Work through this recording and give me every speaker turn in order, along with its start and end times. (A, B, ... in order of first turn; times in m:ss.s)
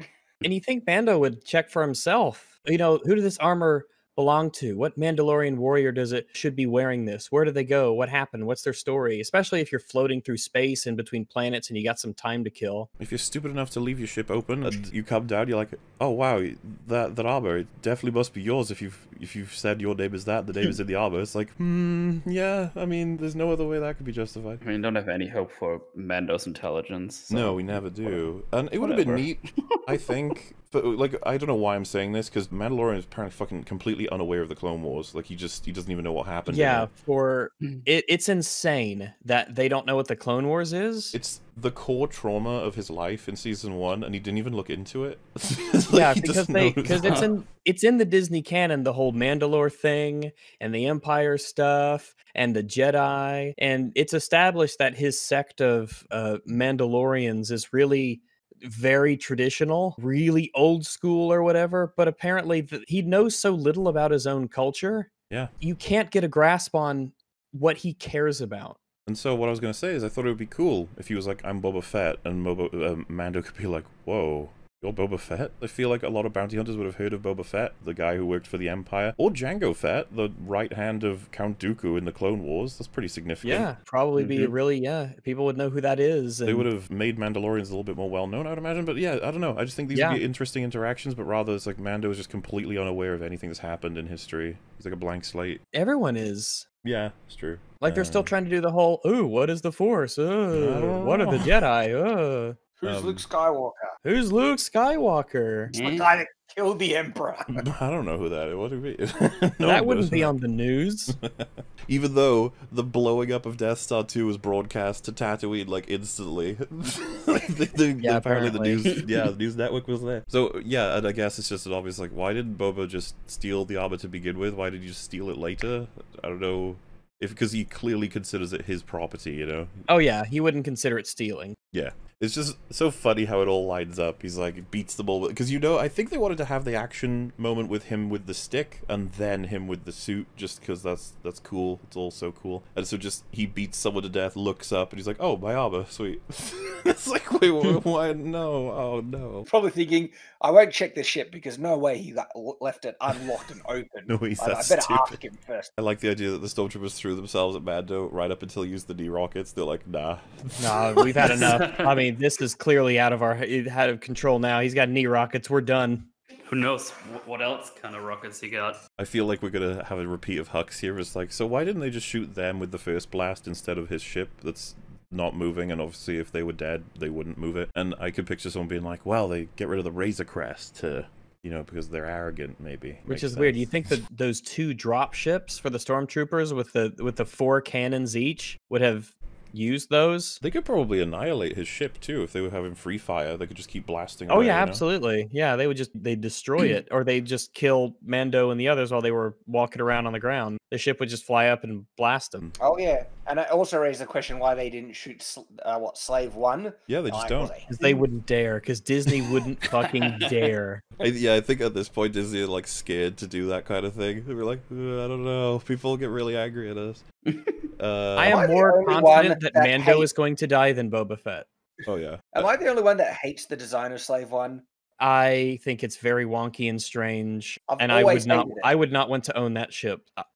0:00.4-0:12.9 A
0:13.0-0:24.6 B
0:24.6-0:28.2 C
0:27.3-0:36.9 B
0:28.8-0:29.9 C
0:36.5-0:41.2 A
0:41.1-0:47.2 B
0:45.9-1:08.8 A
0:47.0-0:47.3 C
1:09.1-1:23.7 B
1:23.4-1:26.7 A
1:24.2-1:24.5 C
1:26.4-1:35.6 B
1:29.9-1:30.2 A
1:35.7-1:36.6 A
1:36.8-1:38.3 B
1:37.8-1:42.6 A
1:40.5-1:41.5 B
1:42.8-1:44.0 D
1:42.8-1:43.2 B
1:44.0-1:45.7 A
1:45.7-1:46.1 C
1:45.8-1:47.6 D
1:47.5-1:50.4 B
1:49.6-1:51.2 A
1:51.1-2:09.8 B
1:58.0-1:58.8 A
1:58.8-1:59.1 C
2:09.9-2:11.6 A
2:11.7-2:29.5 B
2:29.5-2:35.7 D
2:34.1-2:35.2 B
2:35.8-2:41.6 B
2:40.6-2:46.1 A
2:41.2-2:42.0 C
2:46.4-2:48.8 C
2:49.0-3:03.7 B
3:03.1-3:10.4 A
3:10.4-3:14.8 B
3:14.3-3:22.4 A
3:22.6-3:27.7 D
3:26.9-3:27.5 B
3:27.7-3:30.8 A
3:29.8-3:30.5 C
3:31.0-3:37.0 B
3:37.3-3:37.6 C
3:37.8-3:38.4 B
3:38.2-3:41.5 A
3:38.2-3:40.1 D
3:41.8-3:42.5 B
3:42.3-3:44.6 D
3:45.0-3:50.2 A
3:47.7-3:48.7 D